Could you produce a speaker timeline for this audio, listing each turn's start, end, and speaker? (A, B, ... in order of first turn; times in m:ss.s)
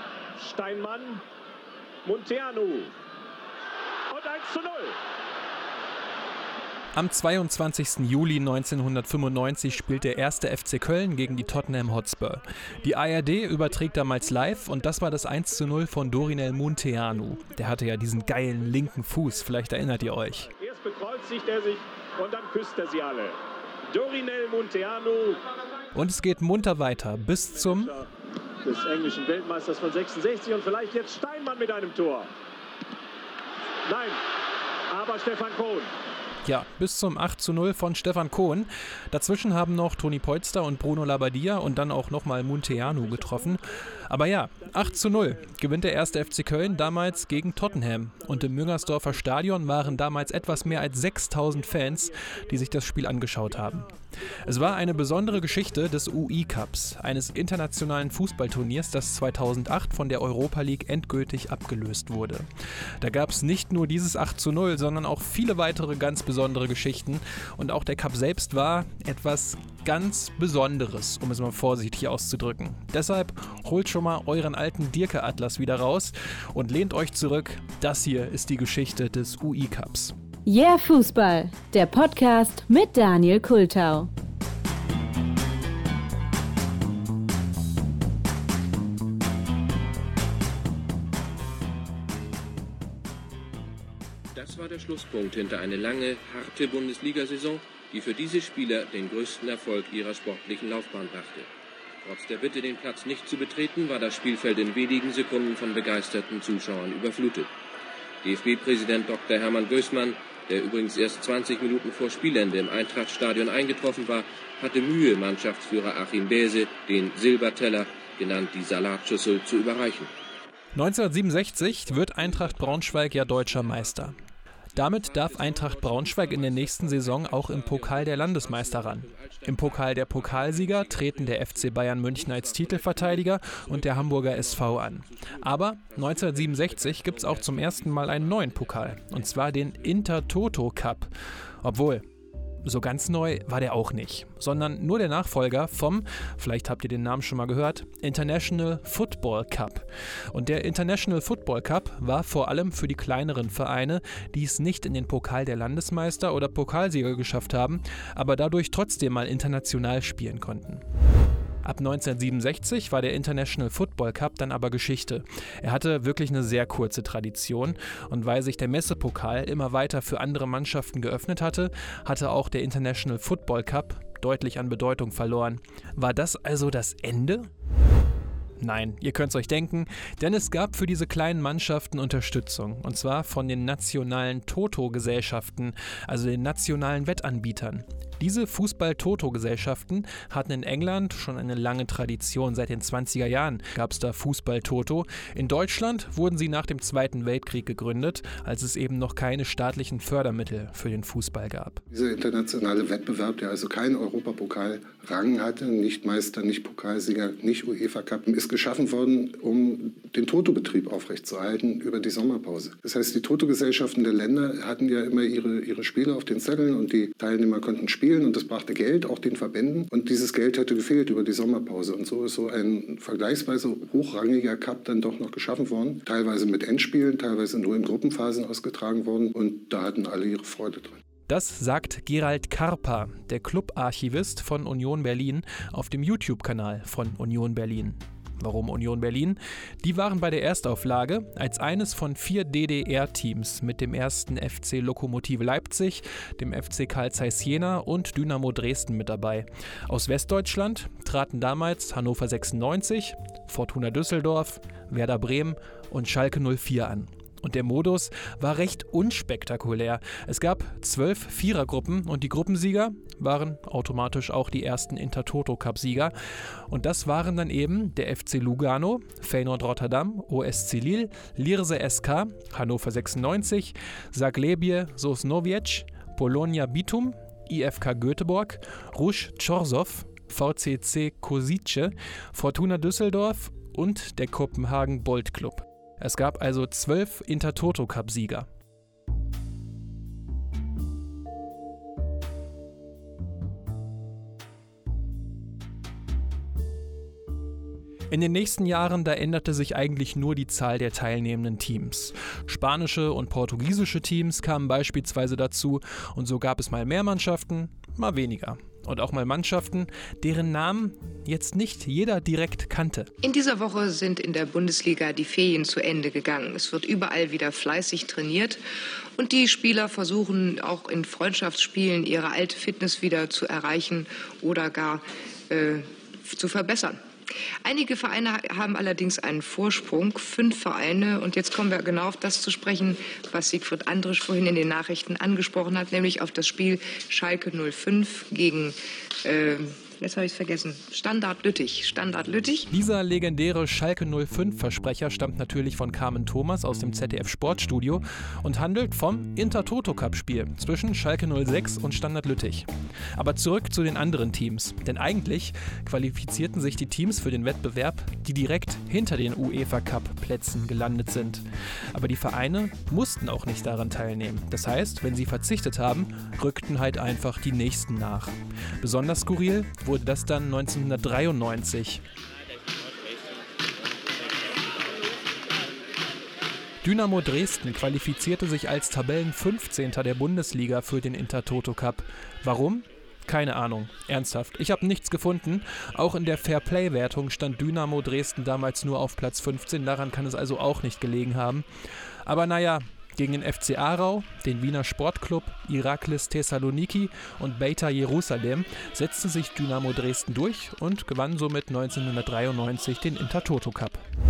0:00.4-0:01.2 A
0:02.0-0:02.9 A
0:04.1-0:05.0 A
0:06.9-0:20.5 B
0:20.5-0:23.4 A
0:23.9-0:25.4 A
0:25.9-0:27.9 B
0:27.7-0:28.0 A
0:28.6-0:32.3 A
0:33.8-0:34.2 A
0:34.9-0:35.9 A
0:36.4-0:53.9 B
0:46.9-0:48.6 A
0:54.4-1:02.5 B
1:03.0-1:20.1 B
1:20.4-1:24.1 C
1:34.3-1:41.5 D
1:42.0-1:47.5 D
1:48.2-2:00.1 D
2:00.7-2:04.2 B
2:01.5-2:04.2 D
2:04.7-2:20.1 D
2:04.7-2:21.1 B
2:21.6-2:22.0 B
2:22.6-2:40.8 B
2:41.6-2:57.5 B
2:58.6-3:21.8 B
3:21.9-3:51.0 E
3:51.3-4:26.1 B
4:26.7-4:48.5 B
4:58.1-5:13.1 B
5:13.2-5:18.6 F
5:19.1-5:42.7 F
5:42.7-6:12.0 B
6:16.8-6:31.6 B
6:32.2-6:44.0 B